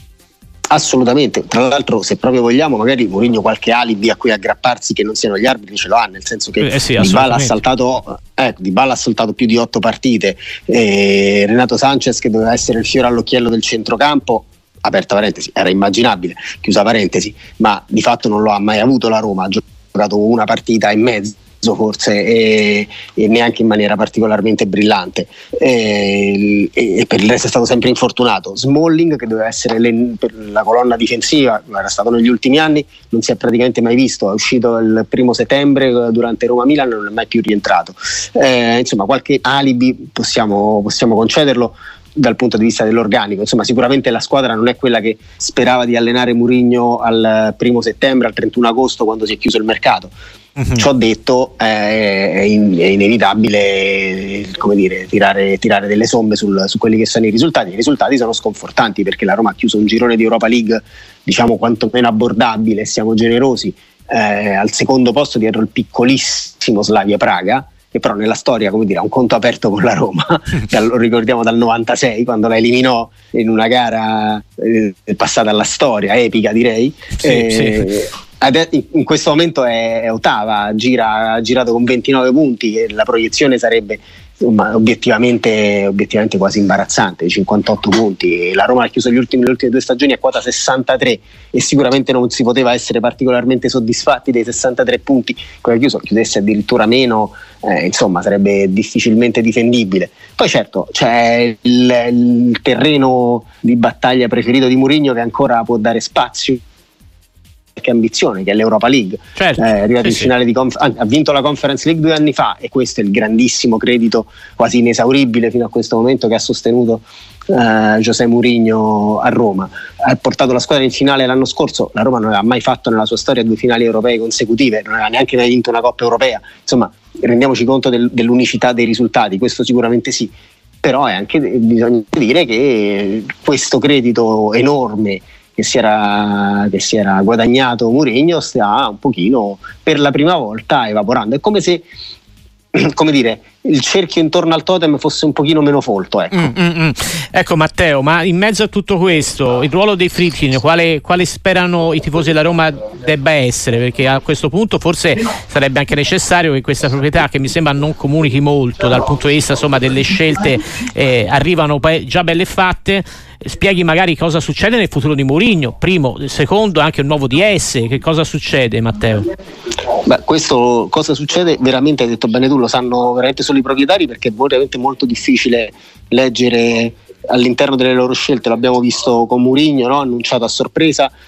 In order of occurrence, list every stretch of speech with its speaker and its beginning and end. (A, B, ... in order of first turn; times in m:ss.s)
0:00.7-0:50.1 A
0:06.6-0:07.6 B
0:50.6-0:50.8 B
0:50.7-1:46.6 A
1:17.2-1:17.9 B
1:47.8-2:10.3 A
1:49.4-1:50.3 B
2:10.8-2:21.8 A
2:22.7-2:26.5 A
2:26.3-2:49.3 B
2:50.0-3:01.1 A